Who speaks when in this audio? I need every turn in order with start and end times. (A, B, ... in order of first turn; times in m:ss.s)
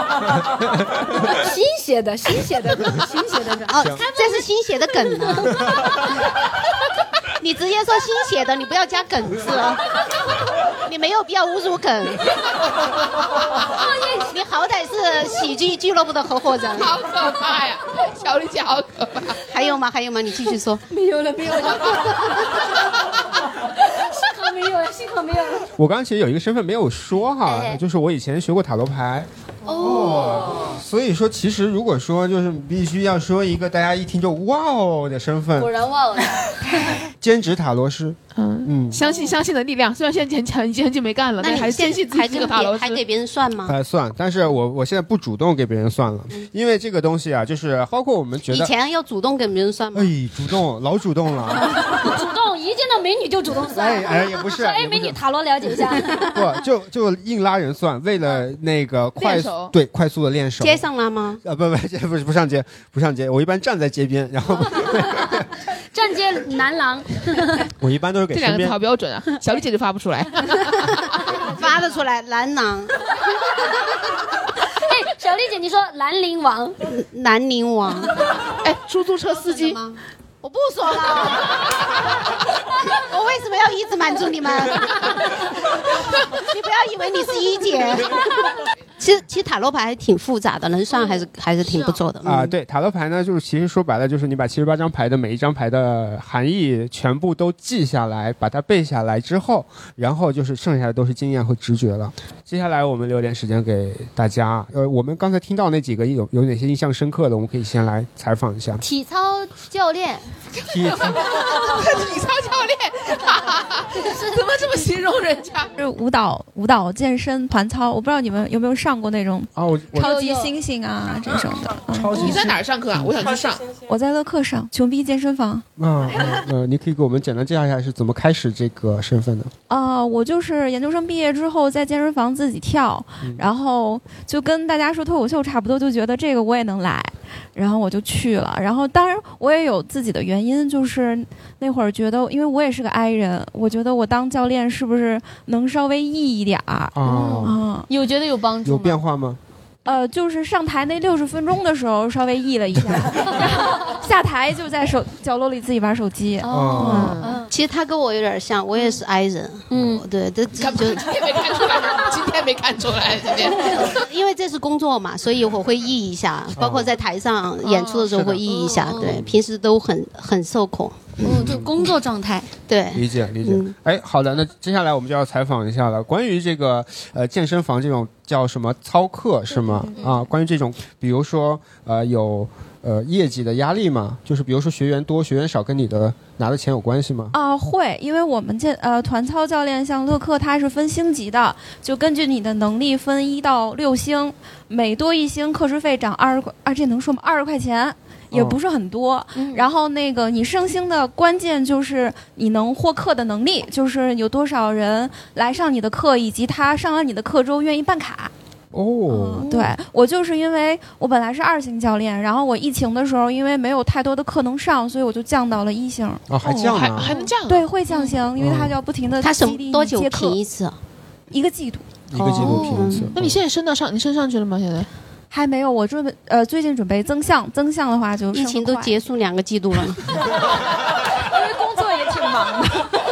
0:01.3-0:05.6 A
0:03.7-0:05.5 B
0:07.4-0:09.8 B
0:10.8-0:12.2 B
0:13.7-0:14.3 A
0:14.3-0:17.0 B
0:16.8-0:19.4 C
0:19.5-0:20.8 B
0:20.9-0:22.7 A
0:23.8-0:25.7 A
0:25.8-0:35.7 D
0:27.4-0:27.8 A
0:29.6-0:30.7 A
0:35.6-0:36.4 A
0:37.2-0:39.0 D
0:38.4-0:43.0 C
0:41.4-0:43.7 B
0:43.7-0:48.7 D
0:48.5-0:50.1 B
0:49.9-0:51.7 D
0:51.7-0:56.4 A
0:53.7-0:55.2 D
0:56.1-1:00.8 D
0:59.2-0:59.7 C
1:00.6-1:01.4 B
1:01.4-1:05.4 D
1:04.7-1:05.2 A
1:05.9-1:07.6 A
1:07.8-1:08.8 D
1:08.3-1:11.0 C
1:11.4-1:12.9 B
1:14.9-1:16.8 A
1:16.9-1:18.1 B
1:18.6-1:19.8 C
1:19.7-1:21.6 B
1:23.1-1:25.0 B
1:26.4-1:28.2 B
1:29.0-1:32.5 B
1:32.2-1:48.8 D
1:48.8-1:50.2 A
1:50.7-1:51.2 D
1:50.8-1:55.7 C
1:55.8-2:02.2 E
1:59.5-2:00.1 D
2:00.0-2:00.5 A
2:01.9-2:03.1 D
2:02.1-2:03.6 C
2:03.8-2:05.6 E
2:05.8-2:09.5 D
2:09.7-2:27.9 E
2:26.9-2:27.6 D
2:27.1-2:29.0 A
2:28.6-2:29.4 D
2:29.8-2:37.2 E
2:36.4-2:37.5 A
2:36.4-2:37.2 D
2:37.4-2:41.1 B
2:39.7-2:40.0 A
2:40.6-2:43.8 C
2:43.8-2:51.5 B
2:46.6-2:46.9 D
2:47.6-2:48.0 C
2:48.1-2:49.4 D
2:48.4-2:49.1 A
2:51.2-2:52.5 A
2:51.3-2:51.7 D
2:52.7-2:53.7 B
2:52.9-3:07.3 D
3:00.0-3:00.2 A
3:07.3-3:28.3 E
3:18.3-3:18.6 D
3:19.3-3:19.7 A
3:28.7-3:29.5 D
3:29.1-3:36.2 E
3:29.4-3:29.7 A
3:36.3-3:37.1 D
3:36.4-3:37.6 C
3:37.5-3:40.4 E
3:38.4-3:38.8 D
3:39.2-3:40.8 B
3:41.3-3:41.9 E
3:42.1-3:43.4 D
3:42.1-3:43.1 B
3:42.4-3:42.8 A
3:43.1-3:44.9 C
3:45.3-3:49.0 E
3:48.3-3:50.0 B
3:51.3-3:52.8 E